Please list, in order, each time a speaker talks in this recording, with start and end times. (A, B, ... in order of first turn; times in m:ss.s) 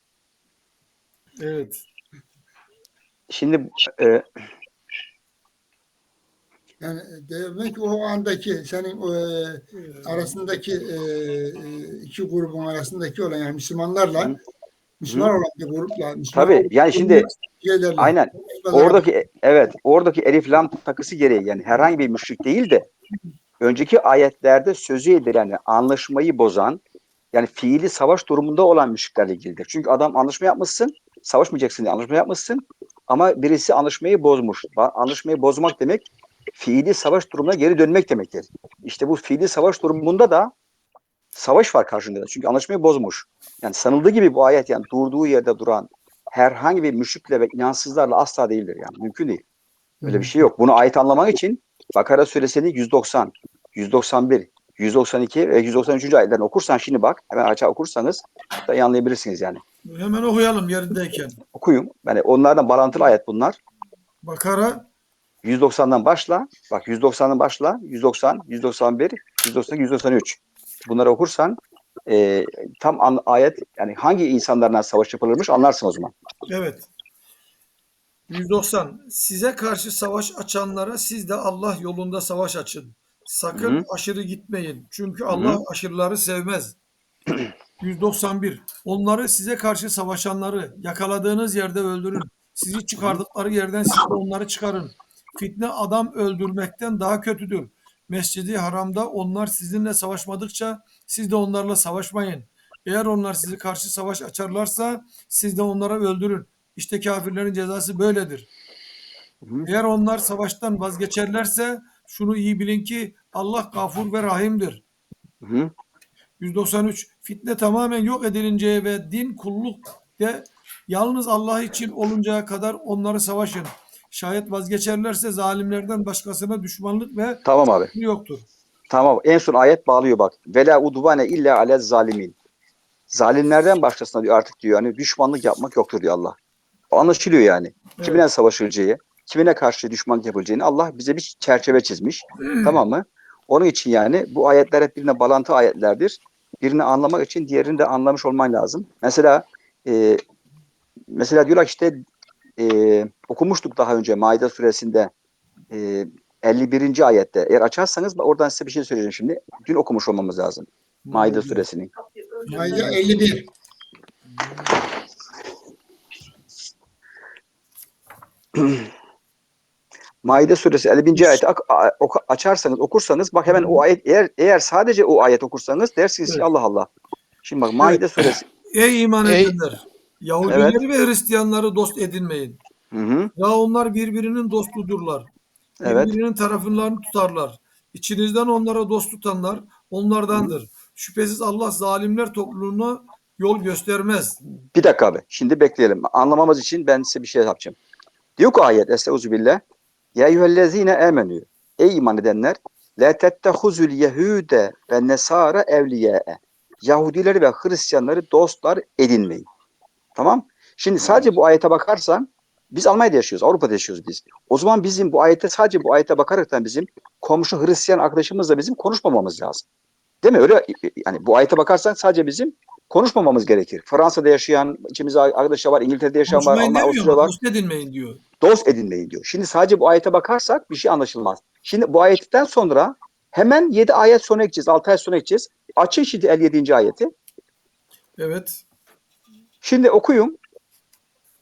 0:01.4-0:01.8 A
0:03.3-0:04.2 B
0:06.8-0:14.3 C
0:09.8-0:10.3 A
0:15.0-0:19.0 C
0:16.3-0:17.3 B
0:18.0-0:22.9 B
0:23.6-0:26.8 B
0:27.3-0:40.5 B
0:41.3-0:49.4 B
0:50.0-0:59.6 B
0:59.8-1:01.4 A
1:01.5-1:03.6 B
1:04.2-1:04.8 A
1:05.4-1:16.1 B
1:16.5-1:16.8 A
1:18.3-1:26.8 A
1:23.5-1:23.8 B
1:25.3-1:25.6 B
1:27.8-1:48.5 A
1:49.4-1:49.7 B
1:49.6-1:54.8 A
1:55.4-1:55.7 B
1:56.4-2:08.4 A
2:07.4-2:07.9 B
2:08.9-2:12.4 B
2:13.1-2:16.4 B
2:16.9-2:30.2 B
2:22.4-2:22.8 A
2:31.1-2:32.0 B
2:32.6-2:35.1 B
2:35.7-2:41.9 B
2:41.0-2:41.6 A
2:42.5-2:43.5 C
2:42.5-2:42.9 A
2:44.4-2:44.7 A
2:48.6-2:48.8 B
2:50.2-2:56.9 B
2:51.1-2:51.4 A
2:53.5-2:53.8 A
2:57.4-2:58.4 B
2:57.8-2:58.0 A
2:58.7-3:02.6 A
3:00.5-3:00.8 B
3:02.9-3:03.3 B
3:03.4-3:05.3 A
3:05.8-3:06.1 B
3:05.8-3:14.4 A
3:14.7-3:17.8 B
3:18.4-3:19.6 B
3:20.2-3:29.5 B
3:30.2-3:39.6 B
3:40.2-3:47.3 B
3:46.3-3:48.2 A
3:48.4-3:57.1 B
3:58.2-3:58.6 A
3:59.6-4:00.4 B